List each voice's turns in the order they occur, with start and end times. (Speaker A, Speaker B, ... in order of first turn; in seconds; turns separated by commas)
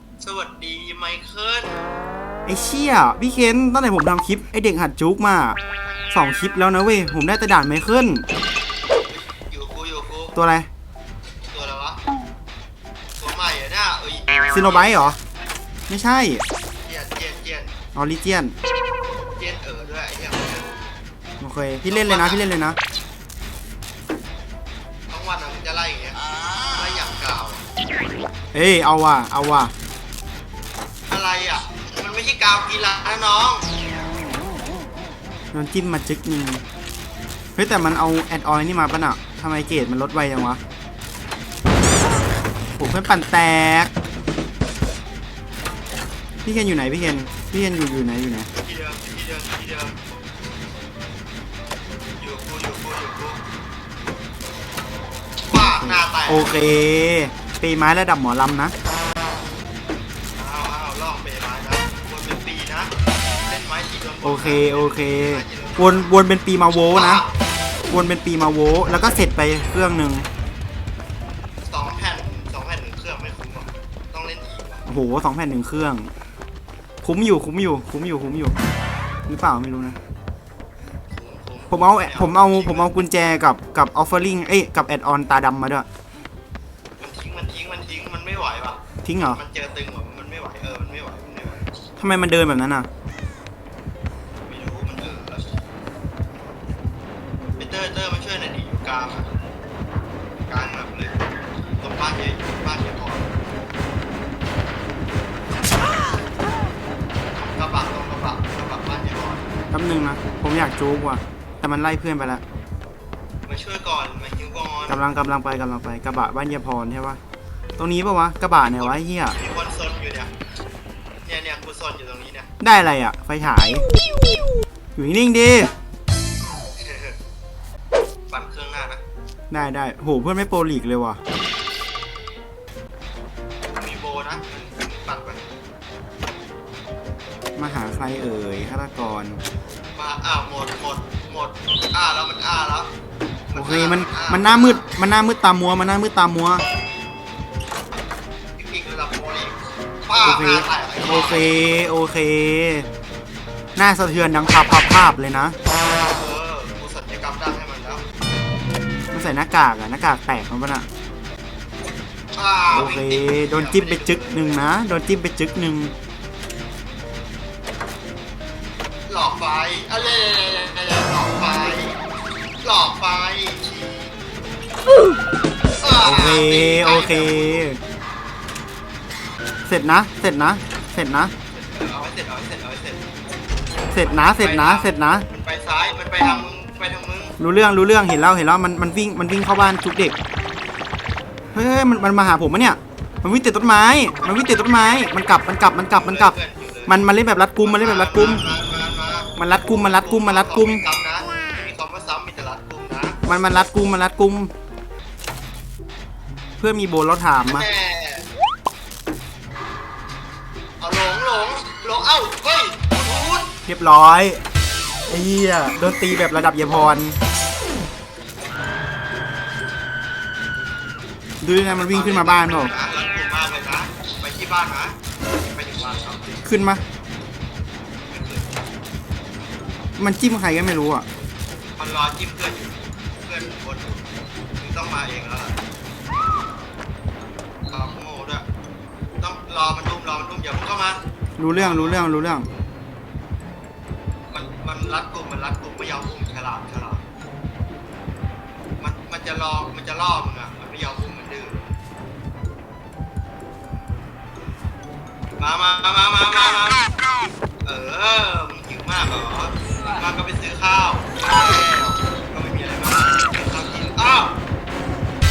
Speaker A: 0.2-1.8, Speaker B: 2.5-5.6, Speaker B: 6.1-8.2, Speaker A: 9.0-10.3, Speaker B: 10.3-10.7, Speaker A: 11.4-12.0, Speaker A: 13.2-15.1, Speaker B: 14.5-15.2, Speaker B: 15.9-16.4, Speaker A: 16.8-17.8, Speaker B: 17.9-18.5, Speaker A: 19.4-20.7, Speaker B: 21.4-22.8, Speaker A: 21.8-22.4, Speaker A: 25.1-26.2, Speaker A: 26.7-27.6, Speaker B: 28.5-29.7, Speaker A: 31.1-33.6, Speaker B: 35.5-36.6, Speaker B: 37.5-40.6, Speaker B: 42.8-43.9, Speaker B: 46.4-48.5, Speaker A: 48.6-50.0, Speaker A: 52.2-53.4, Speaker A: 55.5-56.5, Speaker B: 55.8-58.7, Speaker A: 60.3-62.9, Speaker A: 63.4-66.1, Speaker B: 64.2-67.2, Speaker A: 66.9-67.3, Speaker B: 67.9-70.3, Speaker A: 71.7-74.8, Speaker B: 74.8-76.1, Speaker B: 77.0-78.5, Speaker B: 79.3-80.0, Speaker A: 81.1-82.9, Speaker B: 81.7-85.9, Speaker A: 87.0-91.6, Speaker B: 89.0-89.4, Speaker B: 92.0-92.9, Speaker A: 94.4-95.5, Speaker A: 97.6-99.3, Speaker A: 100.5-101.2, Speaker A: 101.8-103.3, Speaker A: 107.3-109.5, Speaker B: 109.7-112.4, Speaker A: 113.4-115.0, Speaker B: 114.9-117.2, Speaker B: 117.8-119.4, Speaker A: 118.6-120.3, Speaker A: 121.2-122.5, Speaker B: 122.6-123.8, Speaker B: 125.0-125.7, Speaker A: 126.8-127.2, Speaker A: 128.3-129.0, Speaker B: 129.5-131.2, Speaker A: 133.7-135.5, Speaker B: 137.6-139.4, Speaker A: 139.9-142.9, Speaker A: 143.5-144.9, Speaker B: 143.5-146.6, Speaker A: 148.6-151.6, Speaker B: 150.2-152.9, Speaker B: 153.8-155.6, Speaker A: 155.9-158.0, Speaker B: 159.1-160.9, Speaker A: 162.3-164.6, Speaker B: 162.7-165.9, Speaker A: 169.1-172.0, Speaker A: 172.6-174.1, Speaker A: 175.8-177.6, Speaker B: 176.0-177.8, Speaker B: 179.7-181.3, Speaker A: 181.5-183.0, Speaker B: 183.9-185.2, Speaker A: 184.0-187.4, Speaker B: 187.4-190.2, Speaker B: 191.5-198.4, Speaker A: 195.9-197.0, Speaker A: 197.6-203.2, Speaker B: 199.4-200.8, Speaker B: 203.2-204.5, Speaker B: 206.6-207.7, Speaker A: 207.4-208.2, Speaker A: 210.8-213.5, Speaker B: 213.7-214.4, Speaker B: 215.1-217.2, Speaker B: 221.4-222.7, Speaker A: 221.6-226.5, Speaker B: 226.4-226.8, Speaker A: 228.1-228.5, Speaker B: 230.0-231.1, Speaker A: 231.8-234.1, Speaker A: 234.6-235.6, Speaker A: 237.7-238.4, Speaker A: 239.2-241.0, Speaker B: 241.4-242.5, Speaker A: 241.5-242.1, Speaker A: 244.3-247.0, Speaker A: 248.8-251.6, Speaker A: 255.4-256.9, Speaker A: 257.6-264.4